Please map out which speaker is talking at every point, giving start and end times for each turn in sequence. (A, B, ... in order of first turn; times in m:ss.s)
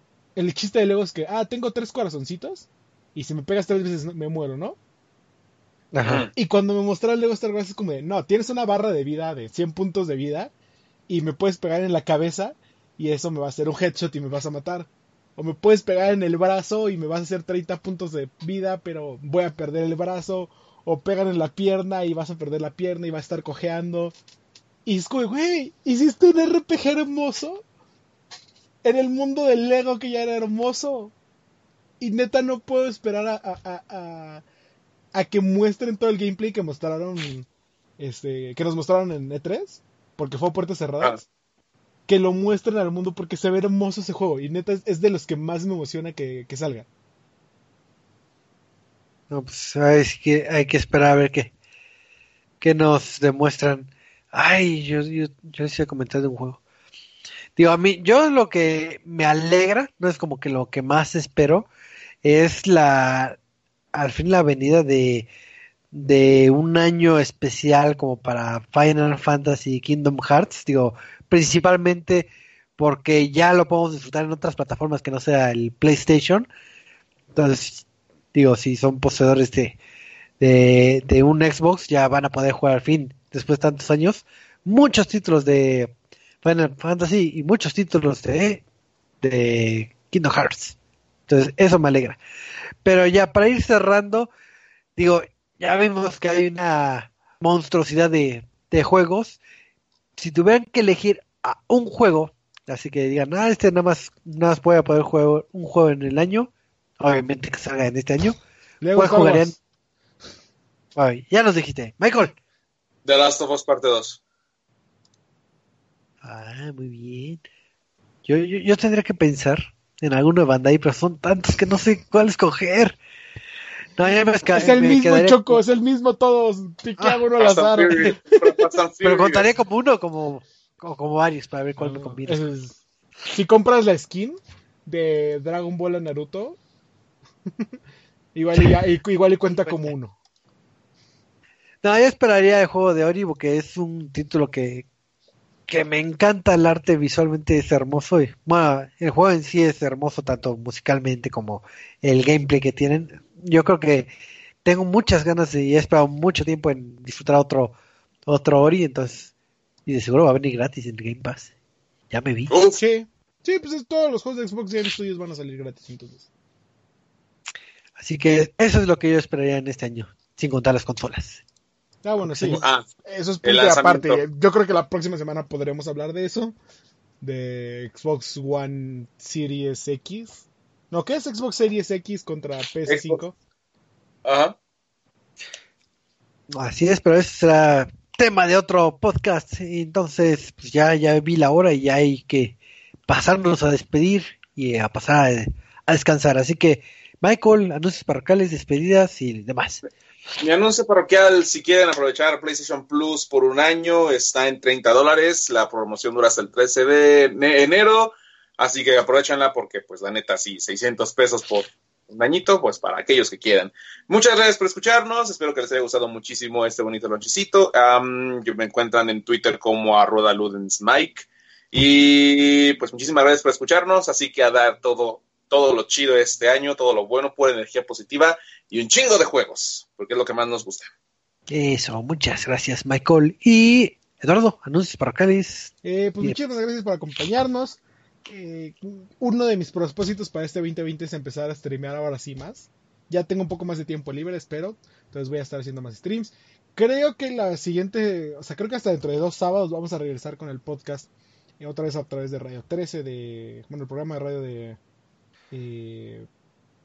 0:00.4-0:04.8 A
0:05.9-0:06.3 B
0:06.0-0:06.3 C
0:06.4-0:10.5 A
0:11.1-0:24.1 A
0:24.9-0:27.6 A
0:28.8-0:31.1 A
0:32.0-0:34.4 A
0:35.2-0:37.5 A
0:38.0-0:41.2 A
0:42.1-0:46.9 A
0:49.3-0:51.5 B
0:52.6-0:56.6 B
0:57.6-1:01.7 B
1:02.2-1:03.4 B
1:03.9-1:05.3 B
1:05.9-1:16.5 B
1:17.3-1:19.8 B
1:20.4-1:25.9 B
1:26.4-1:28.6 B
1:29.2-1:30.8 B
1:31.3-1:32.2 B
1:32.8-1:34.3 B
1:35.0-1:39.4 B
1:40.2-1:48.4 B
1:48.8-1:49.6 A
1:49.0-1:49.6 B
1:51.0-1:52.4 B
1:53.0-1:54.2 C
1:56.2-1:57.4 B
1:58.2-2:03.0 B
2:04.0-2:05.6 B
2:04.5-2:08.6 A
2:07.4-2:09.5 C
2:09.0-2:12.4 B
2:11.8-2:16.6 A
2:18.4-2:20.2 A
2:21.8-2:24.9 B
2:25.7-2:34.1 B
2:34.6-2:37.8 B
2:38.3-2:39.3 B
2:39.9-2:41.5 B
2:42.1-2:42.5 B
2:42.5-2:42.8 C
2:42.7-2:46.3 A
2:48.0-2:51.4 B
2:52.0-2:56.6 A
2:52.2-2:52.6 B
2:52.5-2:52.9 C
2:53.4-2:54.2 C
2:57.2-3:03.4 A
3:02.9-3:03.2 C
3:04.2-3:04.6 C
3:06.5-3:19.8 B
3:20.4-3:50.9 C
3:51.5-3:56.4 B
3:55.8-4:11.1 A
4:11.6-4:14.8 A
4:15.5-4:16.3 A